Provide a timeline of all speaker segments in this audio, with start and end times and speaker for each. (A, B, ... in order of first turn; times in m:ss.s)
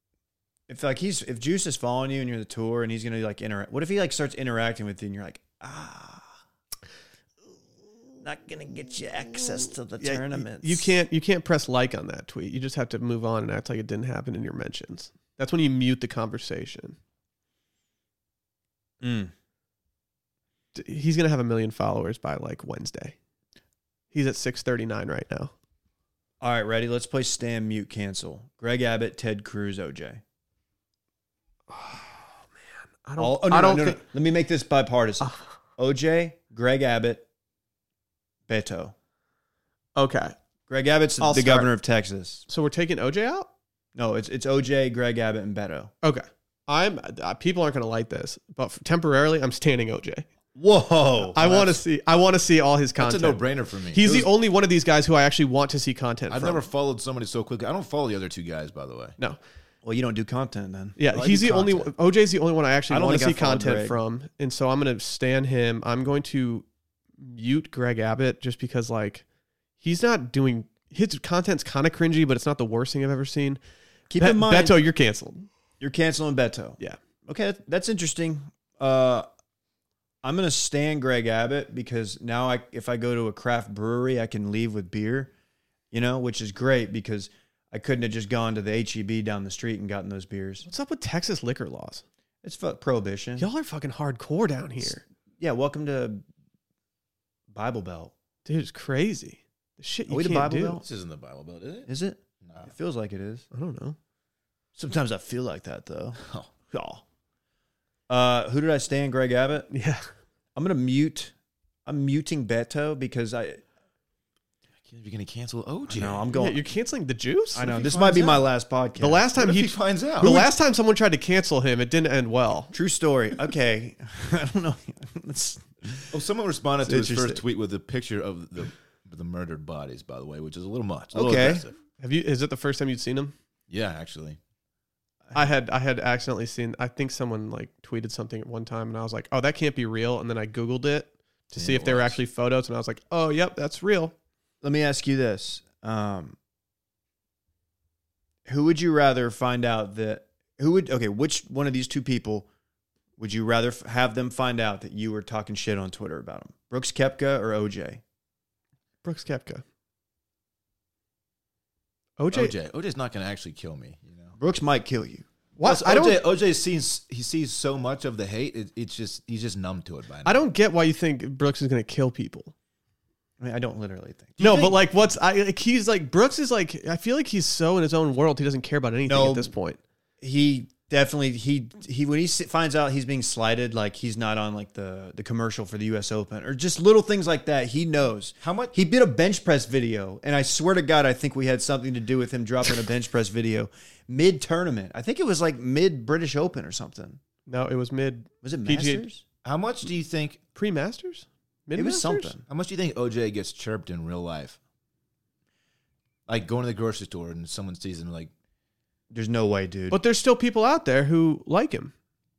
0:00.7-0:06.4 A
0:08.2-0:10.9 A
0:10.0-0:17.0 B
0:19.0-0:19.3 A
0:20.8-0:23.2 B
0:24.1-0:25.5 B
0:26.4-0:30.2 A
0:31.7-0:32.4 B
0:33.0-0:34.0 B
0:33.2-0:37.2 A
0:38.5-0:38.9 A
0:40.0-0:40.4 B
0:40.7-0:42.5 A
0:41.2-0:41.7 B
0:42.5-0:43.5 B
0:44.0-0:45.9 A
0:46.0-0:50.3 B
0:50.6-0:51.8 A
0:51.3-0:56.6 B
0:53.0-0:54.3 C
0:56.3-0:59.2 C
0:59.8-1:01.9 A
1:01.0-1:06.6 B
1:02.9-1:04.0 A
1:07.2-1:09.2 B
1:09.8-1:13.6 B
1:14.1-1:14.8 A
1:14.2-1:15.5 B
1:15.8-1:19.3 A
1:20.2-1:25.3 A
1:25.9-1:30.7 A
1:30.6-1:32.0 B
1:32.4-1:33.5 A
1:33.4-1:35.0 B
1:34.8-1:36.2 A
1:37.5-1:38.1 A
1:38.4-1:40.8 B
1:40.1-1:40.8 A
1:40.8-1:41.9 C
1:41.9-1:43.5 A
1:42.4-1:42.7 C
1:43.5-1:44.0 B
1:44.8-1:46.2 A
1:46.2-1:46.5 C
1:46.7-1:47.0 A
1:48.1-1:49.7 A
1:49.7-1:50.1 B
1:50.6-1:51.3 A
1:51.9-1:53.6 A
1:54.9-1:56.3 C
1:55.9-1:56.6 A
1:56.3-1:57.7 B
1:57.6-1:59.3 A
1:57.6-1:58.4 C
1:59.0-2:02.7 B
1:59.4-2:00.4 C
2:00.2-2:00.5 A
2:02.7-2:06.1 A
2:06.1-2:11.8 C
2:06.8-2:07.4 A
2:11.1-2:11.6 A
2:12.0-2:13.3 B
2:13.7-2:14.4 C
2:15.3-2:24.1 B
2:21.6-2:22.2 C
2:24.6-2:26.4 A
2:28.5-2:32.5 A
2:33.2-2:38.0 A
2:39.0-2:39.6 B
2:42.2-2:42.5 B
2:42.3-2:44.4 C
2:44.4-2:45.3 A
2:45.6-2:46.2 B
2:45.6-2:50.4 C
2:50.2-2:52.5 B
2:53.4-2:54.7 A
2:54.4-2:59.8 B
2:54.4-2:54.7 C
2:59.1-2:59.5 A
3:00.2-3:17.2 A
3:08.4-3:08.8 C
3:17.5-3:19.1 B
3:18.4-3:19.2 A
3:19.4-3:20.4 C
3:20.6-3:22.4 B
3:21.8-3:22.4 A
3:22.5-3:24.6 C
3:26.3-3:28.3 C
3:29.1-3:30.0 A
3:29.9-3:31.9 B